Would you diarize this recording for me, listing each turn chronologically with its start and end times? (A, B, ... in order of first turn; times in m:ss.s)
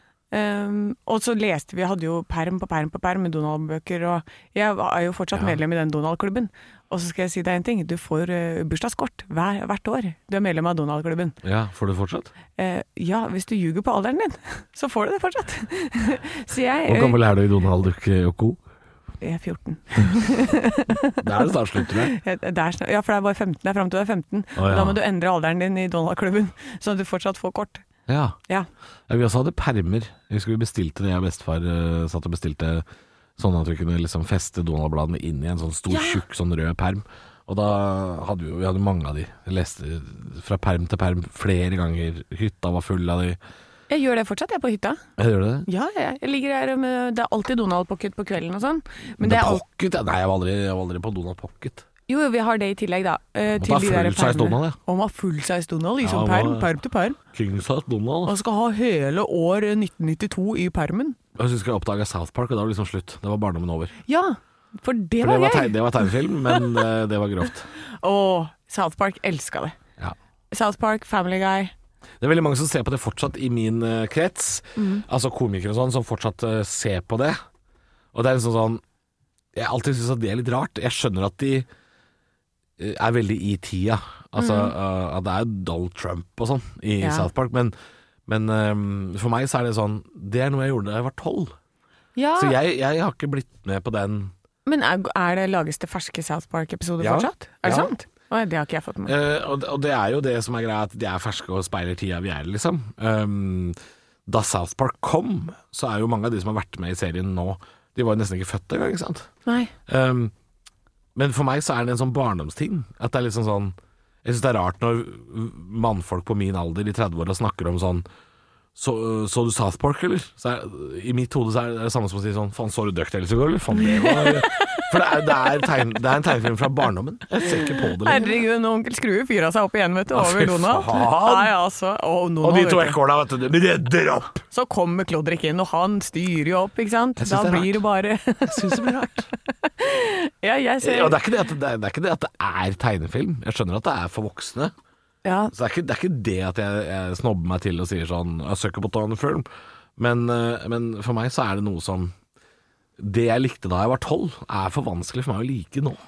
0:00.3-0:11.4 A
0:11.4-0:12.3 B
0:12.6-0:17.2 A
0:16.9-0:18.6 B
0:19.2-0:21.2 A
0:21.2-0:22.2 B
0:21.8-0:27.8 A
0:24.6-0:25.0 B
0:28.1-0:28.4 B
0:29.1-0:32.8 B
0:33.4-0:43.4 B
0:35.9-0:36.2 A
0:43.9-0:45.0 A
0:45.2-0:45.7 B
0:45.7-0:49.6 A
0:49.2-0:51.9 B
0:52.1-0:57.2 A
0:53.6-0:54.8 B
0:56.0-0:56.7 B
0:57.3-0:58.4 B
0:58.2-1:01.2 A
1:01.4-1:04.0 B
1:04.1-1:06.8 A
1:05.2-1:07.7 B
1:08.0-1:09.8 A
1:10.5-1:11.7 A
1:12.2-1:17.4 B
1:14.8-1:15.0 A
1:18.1-1:18.8 B
1:19.5-1:21.7 B
1:22.8-1:27.7 B
1:24.4-1:24.7 A
1:27.0-1:27.3 A
1:28.3-1:31.5 B
1:32.2-1:32.6 A
1:32.4-1:34.3 B
1:34.7-1:39.2 A
1:37.0-1:37.9 B
1:39.1-1:43.8 B
1:44.3-1:49.3 B
1:49.5-1:49.7 A
1:49.9-1:50.3 B
1:51.2-1:58.0 B
1:58.8-2:08.3 B
2:03.8-2:05.8 A
2:07.5-2:13.0 A
2:10.1-2:11.5 B
2:12.4-2:14.4 B
2:14.5-2:21.2 A
2:17.2-2:17.8 B
2:18.5-2:19.3 B
2:20.8-2:24.7 B
2:25.2-2:25.5 A
2:25.5-2:29.5 B
2:30.0-2:32.1 B
2:33.0-2:36.0 B